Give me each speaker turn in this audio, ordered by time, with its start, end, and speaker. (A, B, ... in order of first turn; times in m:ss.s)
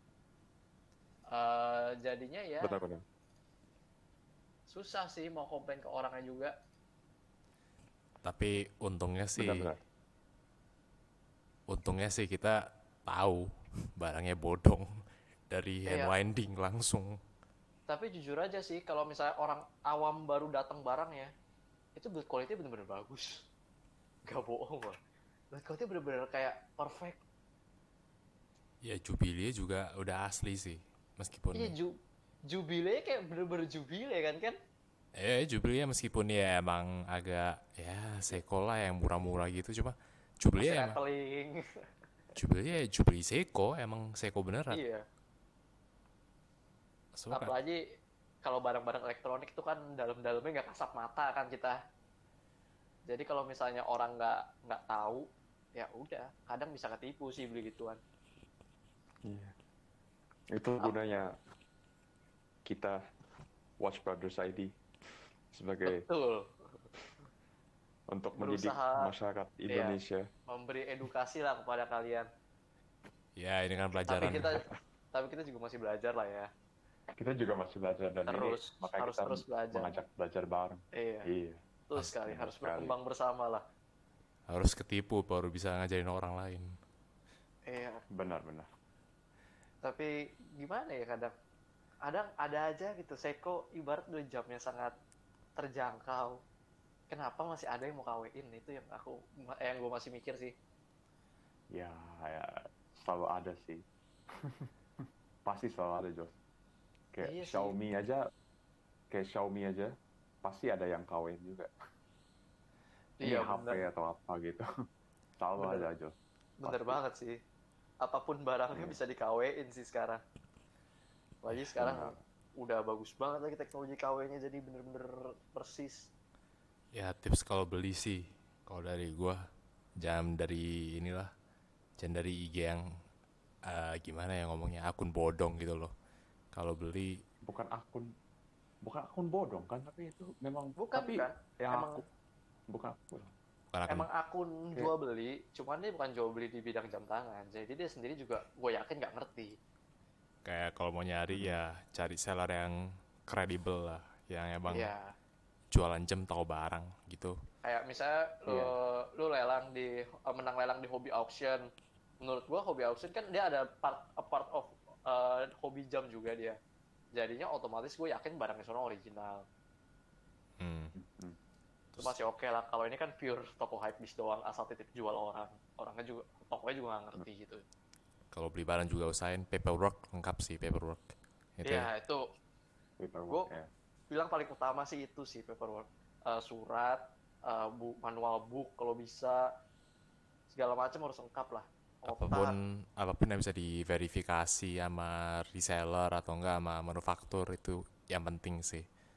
0:01.3-0:02.8 A
0:02.6-0:03.0 B
0:04.7-0:06.5 A
0:08.2-0:09.7 C
0:09.4-0:09.8 B
0:11.7-0:14.9 C
0:15.5-0:17.2 C
0:15.9-0:16.1 A
0:17.9-0:21.3 A
0:22.0-0:23.4 A
0:24.3-0:25.0 A
0:25.5-0:27.2 A
0:28.8-0:31.7 C
0:31.5-0:32.0 A
0:32.5-0:34.6 A
0:35.2-0:41.0 C
0:40.6-0:41.6 A
0:42.4-0:44.8 C
0:44.7-0:45.0 A
0:47.1-0:47.5 C
0:47.3-0:47.8 A
0:48.4-0:51.8 A
0:53.1-0:58.0 A
0:59.2-0:59.5 B
1:00.5-1:01.3 B
1:02.6-1:03.0 B
1:03.8-1:04.7 B
1:05.5-1:06.0 B
1:05.8-1:06.5 A
1:08.1-1:10.2 B
1:08.4-1:09.1 A
1:09.7-1:12.3 A
1:13.4-1:14.7 C
1:14.0-1:16.5 A
1:17.2-1:21.6 B
1:18.3-1:19.9 A
1:20.9-1:21.3 A
1:21.9-1:23.6 A
1:22.2-1:22.9 B
1:24.5-1:26.7 C
1:27.7-1:28.0 A
1:28.1-1:28.7 B
1:29.8-1:31.3 A
1:32.0-1:34.9 A
1:35.6-1:36.4 A
1:37.1-1:40.5 A
1:41.7-1:43.8 B
1:44.4-1:44.7 B
1:45.4-1:46.3 B
1:47.1-1:48.2 B
1:47.2-1:47.7 A
1:49.1-1:49.9 B
1:50.4-1:51.7 B
1:53.2-1:53.8 A
1:53.2-1:54.6 B
1:55.4-1:57.0 B
1:55.6-1:55.9 A
1:56.6-1:57.3 A
1:58.0-2:00.2 A
2:01.4-2:06.1 A
2:01.8-2:02.2 B
2:06.9-2:09.4 C
2:10.0-2:11.3 C
2:12.0-2:12.8 C
2:13.6-2:15.9 C
2:16.5-2:17.2 C
2:17.4-2:18.1 B
2:18.8-2:22.0 B
2:20.8-2:22.0 A
2:22.7-2:23.3 B
2:23.7-2:24.1 C
2:23.9-2:29.5 A
2:30.4-2:34.9 C
2:31.3-2:31.6 B
2:34.7-2:35.1 A
2:35.7-2:37.4 C
2:37.6-2:41.6 A
2:38.5-2:38.7 B
2:42.2-2:46.6 A
2:47.2-2:49.4 A
2:50.6-2:50.9 C
2:50.9-2:51.4 B
2:52.0-2:57.6 A
2:58.3-3:01.9 C
3:01.6-3:02.2 A
3:03.0-3:03.7 B
3:04.1-3:09.4 A
3:10.5-3:12.6 A
3:12.1-3:18.8 C